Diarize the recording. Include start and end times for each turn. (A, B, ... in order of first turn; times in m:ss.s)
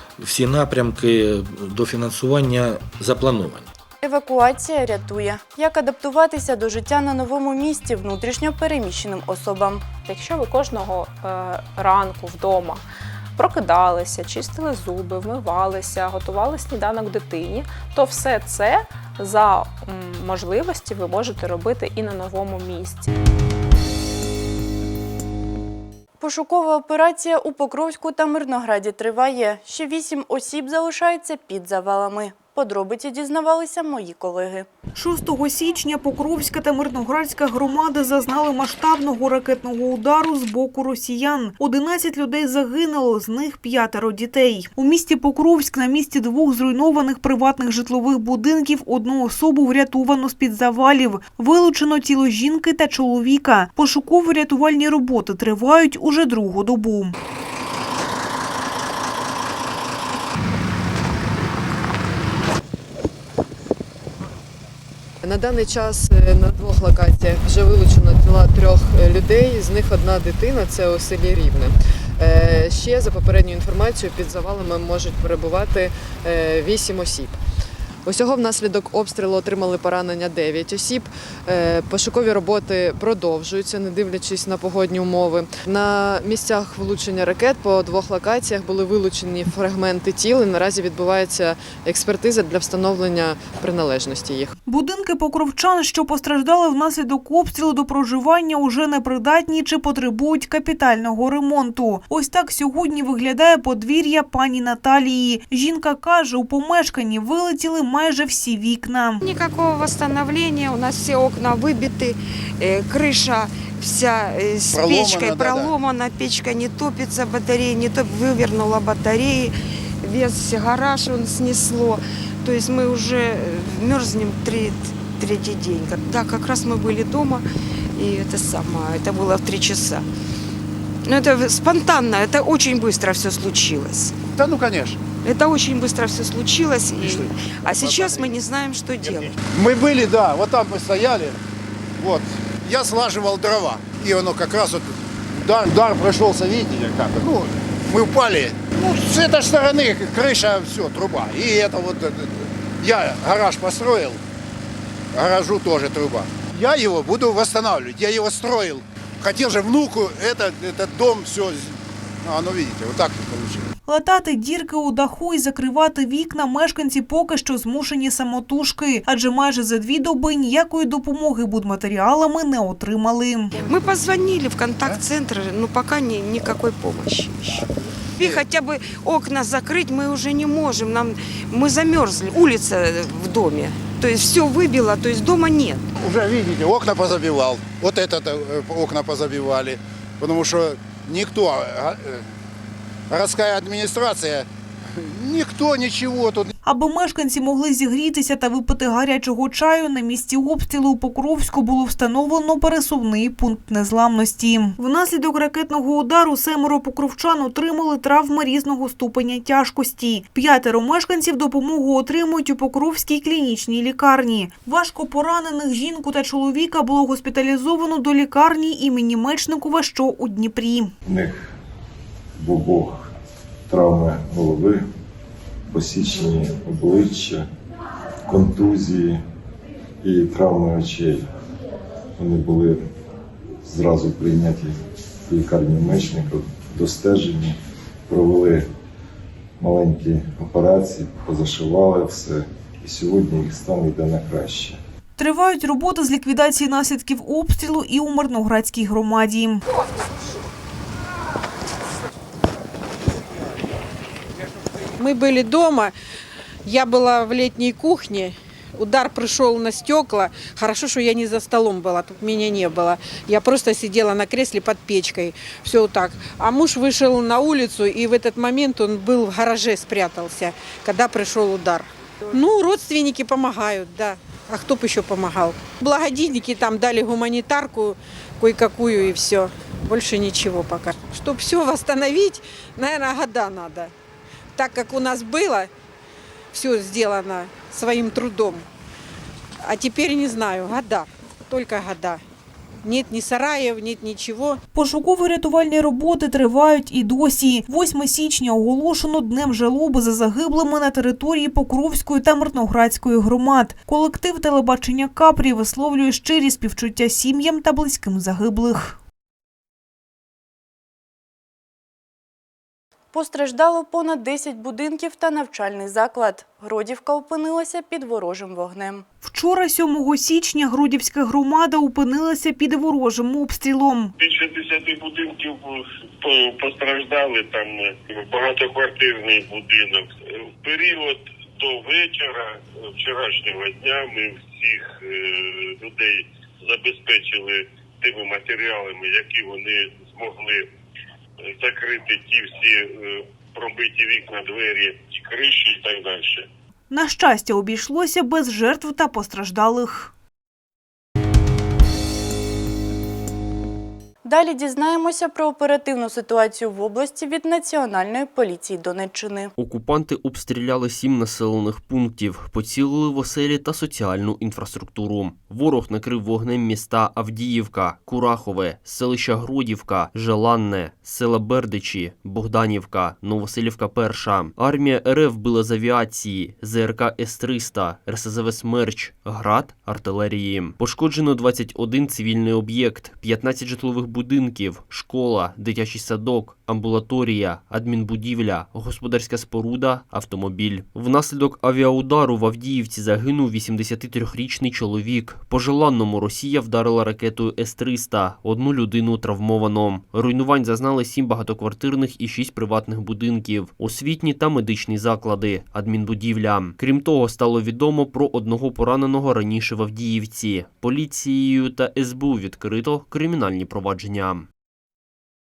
0:00.2-0:03.7 A
0:04.0-0:09.8 B
0:10.0-0:12.8 C
0:13.4-0:23.1 C
0:26.2-0:34.7 B
0:34.9-0:57.1 D
1:05.2-1:17.4 E
1:18.0-1:34.5 E
1:34.6-1:49.2 D
1:49.2-2:10.0 F
1:54.7-1:55.7 G
2:11.0-2:14.2 F
2:14.4-2:15.0 G
2:15.2-2:19.4 F
2:17.0-2:18.3 G
2:19.1-2:21.4 G
2:22.0-2:34.2 G
2:35.1-2:43.7 G
2:43.8-2:53.5 D
2:53.6-3:05.9 F
3:06.0-3:12.2 G
3:13.1-3:16.5 G
3:16.6-3:40.9 D
3:41.0-3:41.5 H
3:42.4-3:43.1 H
3:43.7-3:44.8 H
3:45.7-3:47.5 H
3:48.3-3:49.2 H
3:50.0-3:51.3 H
3:52.2-3:52.9 H
3:53.6-3:57.6 H
3:58.1-3:58.7 H
3:59.6-4:04.8 H
4:05.2-4:09.6 D
4:15.0-4:15.9 I
4:16.6-4:43.9 I
4:44.5-4:45.7 I
4:46.5-4:48.7 I
4:49.6-4:52.2 I
4:52.8-4:54.6 I
4:54.7-5:09.0 D
5:13.1-5:19.0 B
5:19.2-5:24.1 D
5:24.2-5:40.7 J
5:41.4-5:46.5 J
5:46.9-5:50.1 D
5:54.2-5:59.5 B
5:59.6-6:54.5 K